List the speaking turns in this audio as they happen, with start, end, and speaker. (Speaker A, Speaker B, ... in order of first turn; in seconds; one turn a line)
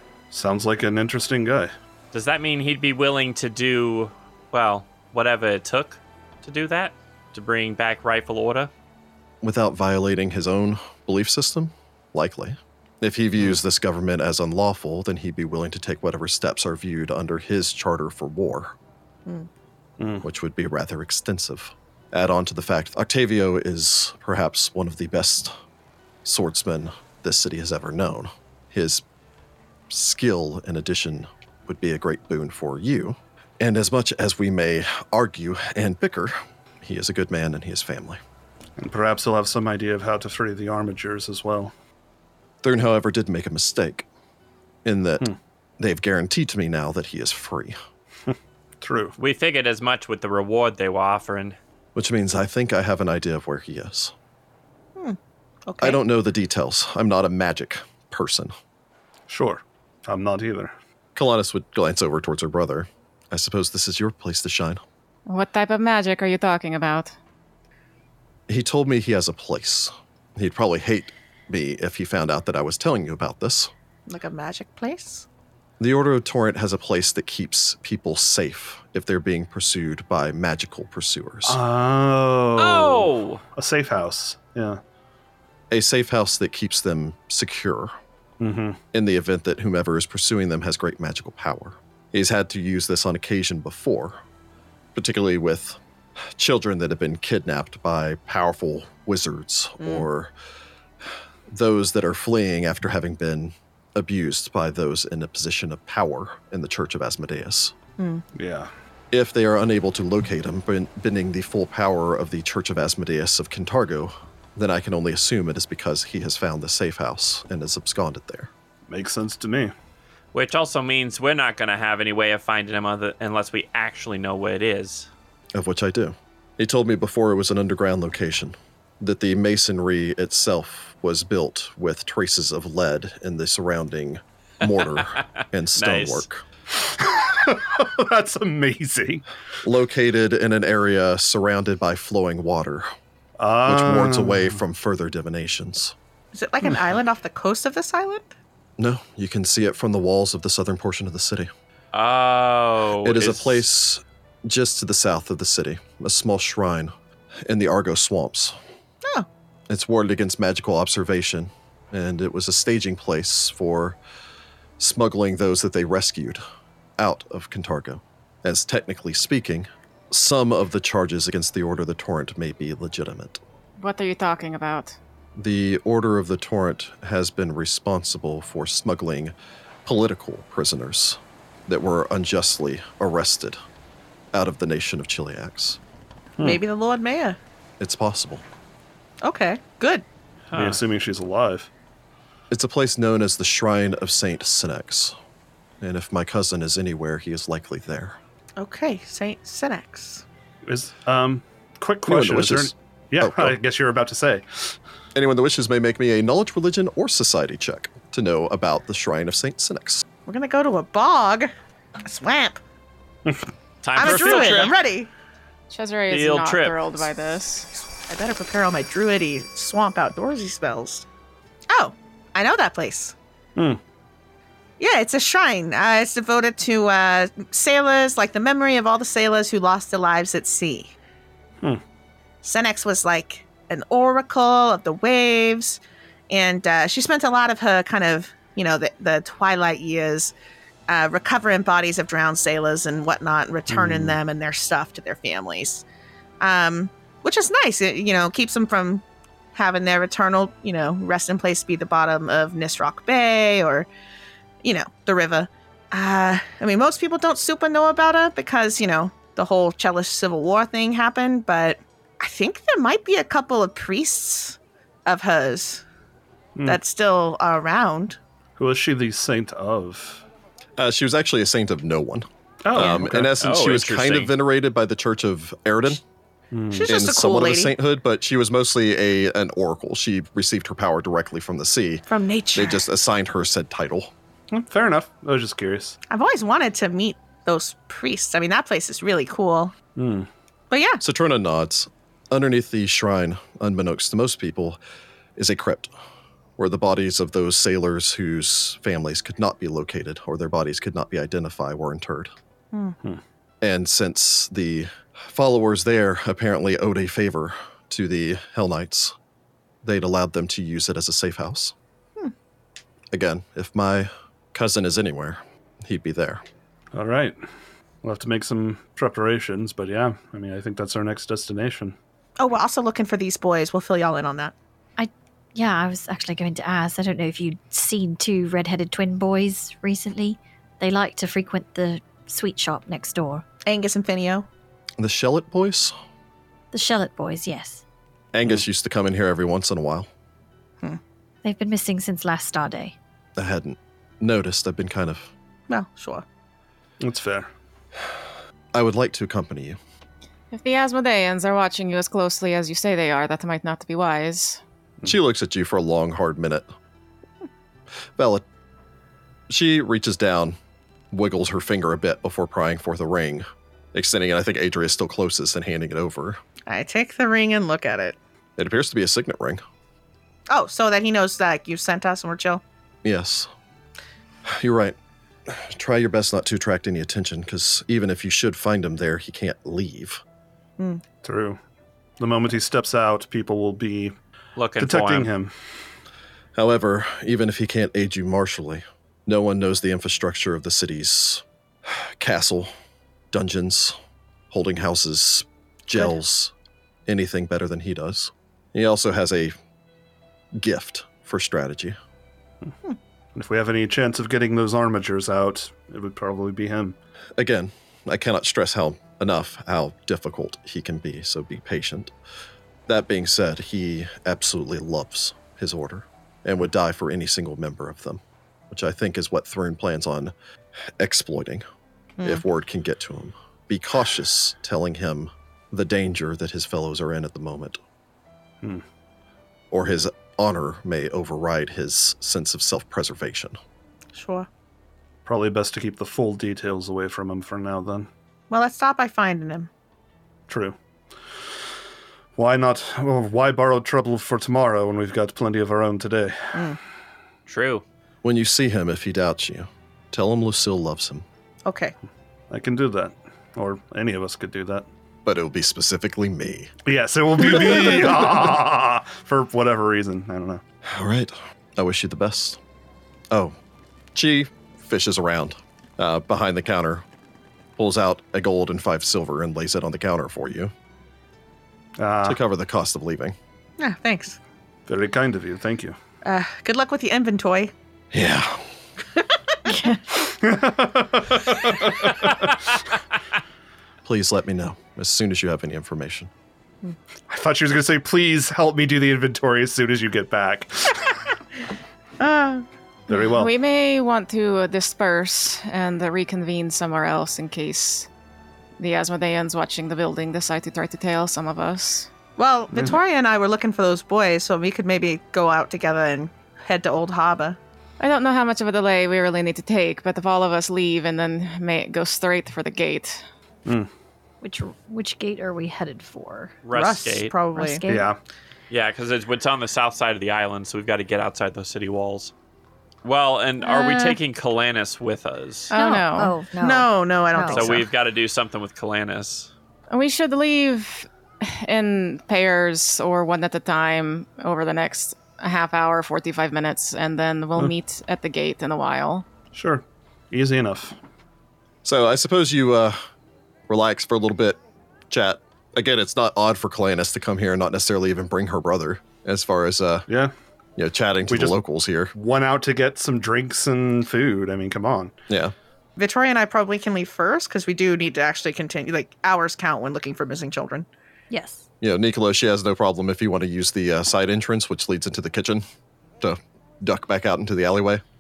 Speaker A: 0.3-1.7
Speaker B: 2.1-8.7
Speaker C: 9.4-18.8
Speaker A: 20.0-20.3
Speaker C: 20.2-25.6
Speaker C: 26.2-29.0
Speaker C: 29.9-38.2
Speaker A: 38.8-41.7
Speaker C: 42.6-44.1
Speaker C: 44.9-47.8
Speaker A: 48.3-49.2
Speaker B: 49.2-51.6
Speaker C: 52.0-54.1
Speaker D: 55.0-56.0
Speaker C: 55.8-58.5
Speaker A: 59.3-60.7
Speaker C: 61.2-64.8
Speaker E: 65.3-67.1
Speaker C: 68.5-73.7
Speaker D: 74.1-75.2
Speaker C: 75.8-81.6
Speaker A: 81.5-84.8
Speaker B: 82.6-83.4
Speaker C: 85.7-88.0
Speaker A: 88.4-88.8
Speaker C: 88.9-94.2
Speaker C: 95.0-100.3
Speaker C: 101.5-107.7
Speaker D: 108.0-108.3
Speaker A: 108.3-108.7
Speaker C: 109.1-118.5
Speaker A: 118.9-119.7
Speaker B: 120.3-125.1
Speaker C: 125.5-136.4
Speaker B: 135.0-135.2
Speaker B: 135.8-136.3
Speaker A: 136.7-139.2
Speaker C: 139.6-142.9
Speaker A: 143.4-144.6
Speaker C: 143.7-145.9
Speaker D: 146.3-148.3
Speaker C: 148.8-151.5
Speaker B: 151.9-153.7
Speaker C: 153.0-156.9
Speaker C: 157.4-158.6
Speaker C: 159.7-164.0
Speaker C: 164.8-166.4
Speaker C: 167.0-173.4
Speaker E: 173.8-175.0
Speaker C: 175.3-179.3
Speaker C: 179.9-183.6
Speaker C: 184.3-185.8
Speaker D: 186.4-187.4
Speaker C: 187.8-188.4
Speaker D: 189.2-190.1
Speaker B: 190.5-190.8
Speaker A: 190.5-191.7
Speaker C: 192.5-195.2
Speaker C: 195.8-198.2
Speaker D: 198.6-200.2
Speaker A: 200.7-204.8
Speaker C: 202.1-203.6
Speaker C: 205.2-210.0
Speaker D: 210.3-211.5
Speaker D: 212.0-212.6
Speaker A: 213.2-213.5
Speaker B: 213.8-214.8
Speaker D: 214.0-215.1
Speaker E: 215.7-217.7
Speaker B: 216.1-217.0
Speaker D: 218.1-221.1
Speaker D: 221.7-223.2
Speaker D: 224.8-230.9
Speaker D: 232.4-240.3
Speaker D: 240.9-245.8
Speaker A: 243.7-244.2
Speaker D: 246.4-249.0
Speaker D: 249.6-253.9
Speaker D: 254.6-265.8
Speaker D: 266.7-268.2
Speaker A: 268.6-270.2
Speaker C: 270.8-276.0
Speaker A: 272.6-273.4
Speaker B: 272.8-274.4
Speaker A: 276.5-276.9
Speaker D: 276.7-277.7
Speaker C: 276.8-284.1
Speaker D: 282.1-282.8
Speaker A: 284.5-286.0
Speaker D: 286.1-289.7
Speaker A: 290.0-290.3
Speaker D: 290.7-291.0
Speaker C: 291.0-294.8
Speaker C: 295.4-295.9
Speaker C: 296.6-302.3
Speaker D: 302.7-303.0
Speaker C: 303.6-309.1
Speaker C: 309.8-311.8
Speaker C: 313.1-316.4
Speaker A: 316.9-317.4
Speaker A: 318.0-322.0
Speaker D: 322.4-324.5
Speaker F: 325.0-333.4
Speaker D: 333.6-334.5
Speaker C: 335.0-335.9
Speaker F: 336.7-337.8
Speaker C: 338.3-340.1
Speaker F: 341.4-343.0
Speaker C: 343.4-345.3
Speaker D: 345.7-346.2
Speaker A: 347.0-347.5
Speaker C: 348.7-349.8
Speaker E: 350.5-354.6
Speaker C: 355.1-356.7
Speaker C: 358.2-358.4
Speaker C: 359.5-360.6
Speaker C: 361.1-366.4
Speaker D: 366.7-368.2
Speaker C: 368.6-369.6
Speaker D: 370.5-372.6
Speaker C: 373.0-373.5
Speaker C: 374.5-380.2
Speaker D: 380.8-381.0
Speaker A: 381.2-381.6
Speaker A: 382.2-384.1
Speaker B: 384.6-385.3
Speaker A: 384.8-385.5
Speaker C: 386.6-392.7
Speaker C: 393.3-394.0
Speaker C: 394.5-396.5
Speaker C: 397.1-399.5
Speaker C: 400.6-402.0
Speaker A: 403.4-407.0
Speaker C: 407.4-412.1
Speaker C: 412.9-420.3
Speaker C: 421.0-421.6
Speaker C: 422.2-427.8
Speaker C: 429.7-433.6
Speaker D: 434.1-434.5
Speaker A: 435.3-438.1
Speaker D: 438.5-439.7
Speaker A: 440.5-440.8
Speaker A: 442.4-446.7
Speaker B: 447.5-447.8
Speaker C: 448.2-451.2
Speaker D: 451.6-451.9
Speaker A: 452.5-454.9
Speaker C: 455.2-456.7
Speaker A: 456.9-460.6
Speaker C: 460.9-462.6
Speaker C: 464.1-467.0
Speaker C: 467.8-470.7
Speaker A: 472.0-472.4
Speaker C: 472.2-473.4
Speaker D: 473.8-474.4
Speaker A: 474.9-476.0
Speaker D: 476.2-477.7
Speaker C: 478.1-478.7
Speaker F: 479.7-480.0
Speaker A: 480.1-482.8
Speaker C: 484.1-486.3
Speaker A: 487.3-491.2
Speaker D: 492.2-492.7
Speaker A: 493.1-493.5
Speaker E: 493.2-498.1
Speaker E: 498.8-502.1
Speaker D: 502.4-507.6
Speaker E: 508.0-513.2
Speaker F: 514.4-516.5
Speaker B: 516.6-517.3
Speaker D: 516.7-517.8
Speaker F: 517.5-518.2
Speaker A: 517.9-518.2
Speaker B: 518.7-522.3
Speaker B: 523.0-525.7
Speaker F: 523.6-524.2
Speaker E: 525.7-526.3
Speaker F: 525.8-527.8
Speaker D: 525.8-526.1
Speaker D: 526.6-527.9
Speaker B: 527.5-529.5
Speaker E: 529.9-539.3
Speaker A: 539.5-541.0
Speaker C: 541.8-543.0
Speaker C: 543.7-544.6
Speaker C: 545.1-550.1
Speaker A: 550.1-550.3
Speaker C: 550.8-552.1
Speaker A: 551.3-551.6
Speaker A: 552.1-555.1
Speaker C: 555.3-555.5
Speaker D: 556.0-560.9
Speaker F: 561.3-561.7
Speaker C: 561.8-565.6
Speaker C: 566.2-568.0